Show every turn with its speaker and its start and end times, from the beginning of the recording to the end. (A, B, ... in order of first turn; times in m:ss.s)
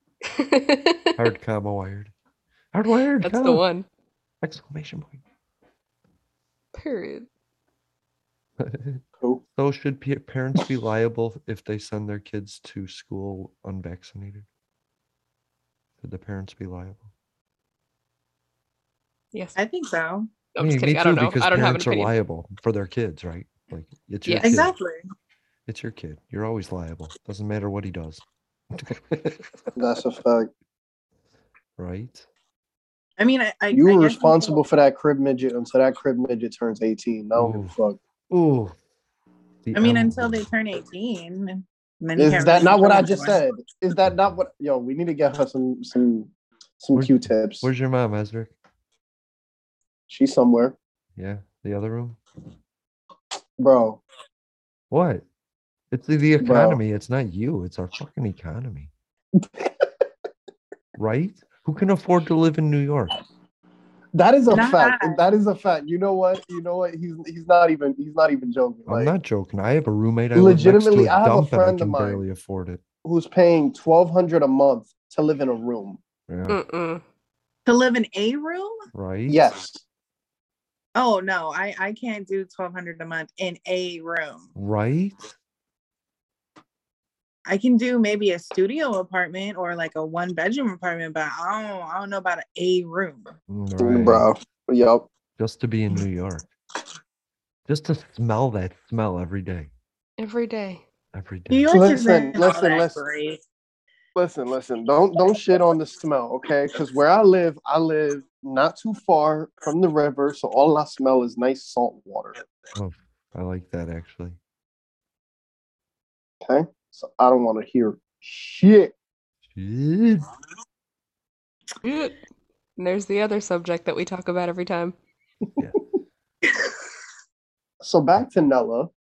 0:00.3-0:01.1 A
0:01.2-0:02.1 B
0:02.7-0:03.6 B
0:03.2-0:03.9 A
0:04.4-0:05.2 B
0:06.7-0:07.3 A
0:08.6-0:09.0 B
0:09.6-0:14.4 B
0:16.0-0:17.1 B
0:19.6-0:20.3 C
0:20.5-0:22.1 A
0:20.6-0:24.8 B
0:24.2-0:24.6 A
0:24.4-0:25.0 C
0:25.7-0:29.6 B
0:29.8-0:30.5 D
0:31.8-0:32.3 B
0:33.2-0:34.6 C
0:33.7-0:38.0 D
0:37.4-0:37.8 B
0:38.3-0:38.8 B
0:39.6-0:40.4 B
0:39.7-0:43.4 C
0:42.2-0:47.7 D
0:46.9-0:48.5 B
0:50.1-0:50.8 D
0:51.2-0:52.2 B
0:53.6-0:54.0 D
0:54.9-0:55.2 B
0:55.9-0:58.9 B
0:56.4-0:56.8 D
0:59.4-0:59.9 D
1:01.0-1:03.2 B
1:04.1-1:09.1 D
1:04.5-1:05.2 C
1:08.9-1:12.8 B
1:10.3-1:12.2 D
1:13.0-1:16.0 D
1:16.3-1:16.6 B
1:16.5-1:17.0 A
1:17.6-1:18.8 C
1:18.9-1:19.5 B
1:19.3-1:19.8 D
1:21.0-1:24.5 C
1:24.6-1:25.3 B
1:27.4-1:33.3 C
1:33.5-1:34.3 B
1:33.8-1:35.1 D
1:35.4-1:36.5 B
1:37.7-1:39.7 B
1:40.2-1:40.8 A
1:41.1-1:41.7 B
1:41.5-1:43.4 C
1:41.7-1:43.0 D
1:44.1-1:52.4 D
1:52.8-1:54.4 B
1:56.4-1:58.9 D
1:59.5-2:00.3 B
2:01.8-2:02.1 A
2:02.8-2:04.9 A
2:07.8-2:08.9 D